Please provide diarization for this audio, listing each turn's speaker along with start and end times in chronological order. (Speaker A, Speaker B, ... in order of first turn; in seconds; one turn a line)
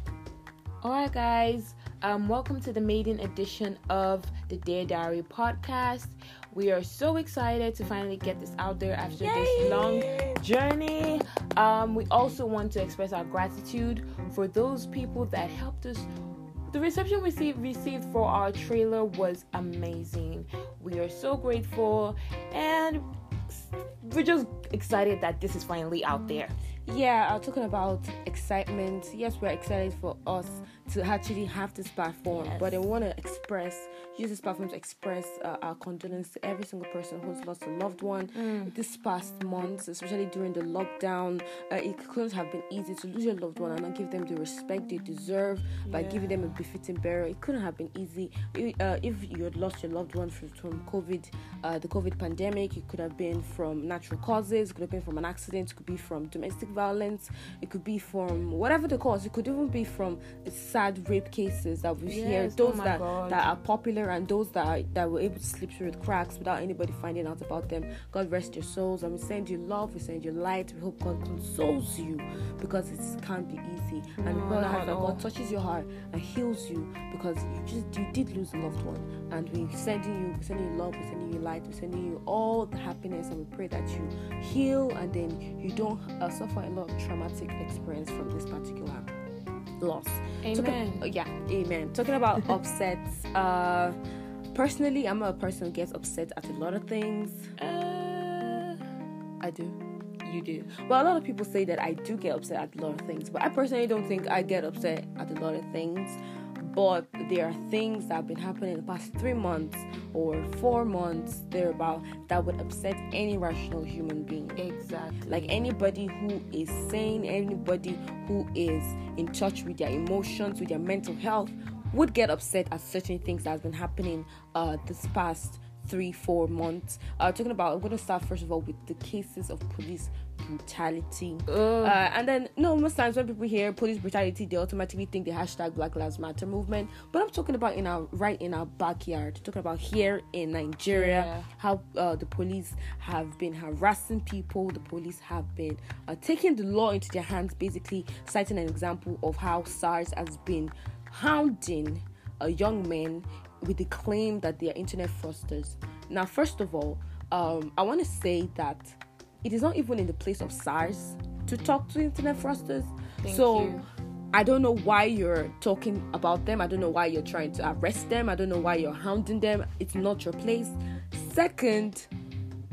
Speaker A: 0.8-16.1
Speaker B: 9.2-10.4
Speaker A: 16.7-26.5
Speaker B: 26.9-89.1
Speaker A: 32.3-32.8
Speaker A: 38.4-38.7
Speaker A: 45.9-46.5
Speaker A: 62.1-63.5
Speaker A: 74.2-75.2
Speaker B: 89.8-94.0
Speaker A: 90.4-91.0
Speaker B: 94.5-97.5
Speaker A: 97.6-98.8
Speaker B: 99.4-99.8
Speaker A: 100.2-100.7
Speaker B: 100.7-114.6
Speaker A: 114.6-115.7
Speaker B: 115.3-163.8
Speaker A: 131.5-132.0
Speaker A: 140.9-141.5
Speaker A: 163.2-163.9
Speaker B: 164.3-172.1